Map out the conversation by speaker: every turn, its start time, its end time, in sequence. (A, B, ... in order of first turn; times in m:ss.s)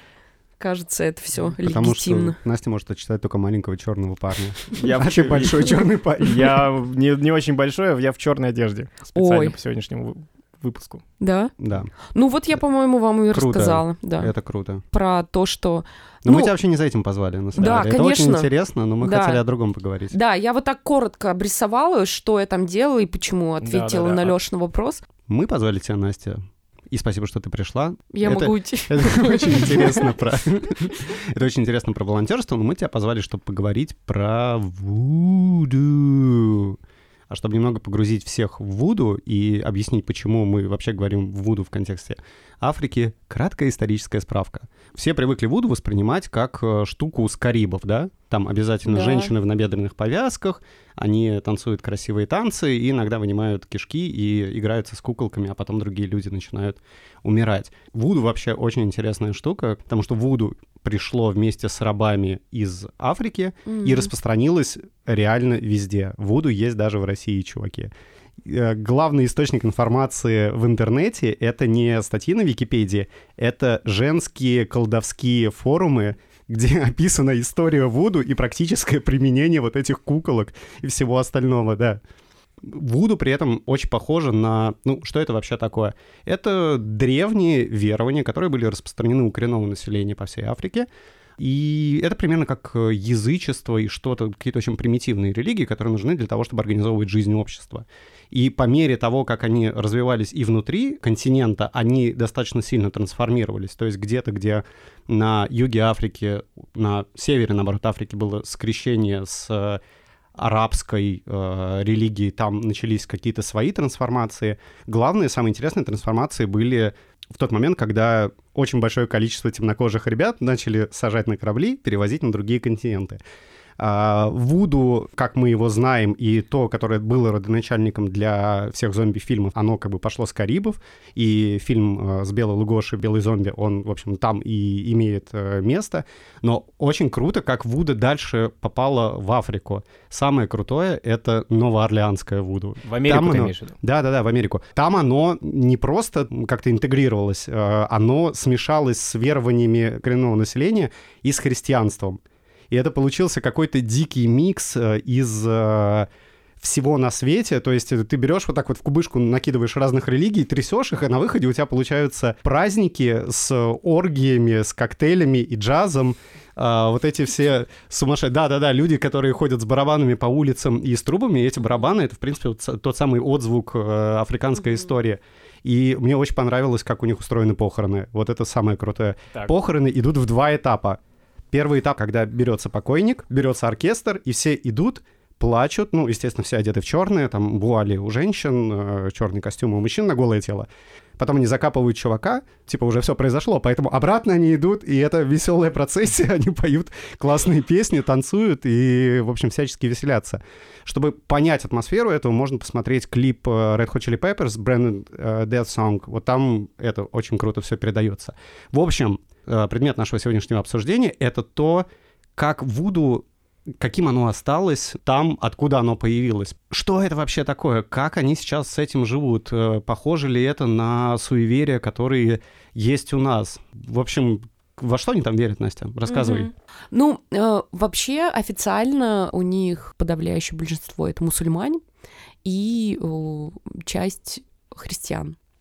0:00.6-0:02.4 A
0:01.5-0:06.6 B
0:04.8-0:11.0 C
0:09.2-0:09.5 A
0:11.2-0:11.5 A
0:11.6-0:11.9 B
0:12.1-0:14.3 A
0:13.3-0:14.8 B
0:14.9-0:16.5 A
0:16.2-0:20.2 B
0:17.6-0:18.5 A
0:19.0-0:19.4 A
0:20.1-0:25.0 A
0:23.6-0:24.3 C
0:25.3-0:36.8 B
0:28.1-0:30.2 A
0:37.3-1:22.0 B
0:48.9-0:49.3 A
1:03.7-1:04.1 A
1:22.6-1:49.8 B
1:50.4-2:03.2 B
2:03.8-2:32.2 B
2:22.8-2:23.8 C
2:32.7-2:36.1 B
2:36.6-3:01.0 B
3:01.5-3:10.7 B
3:11.2-3:33.3 B
3:33.8-3:46.5 B
3:46.1-3:51.8 A
3:52.4-3:55.4 A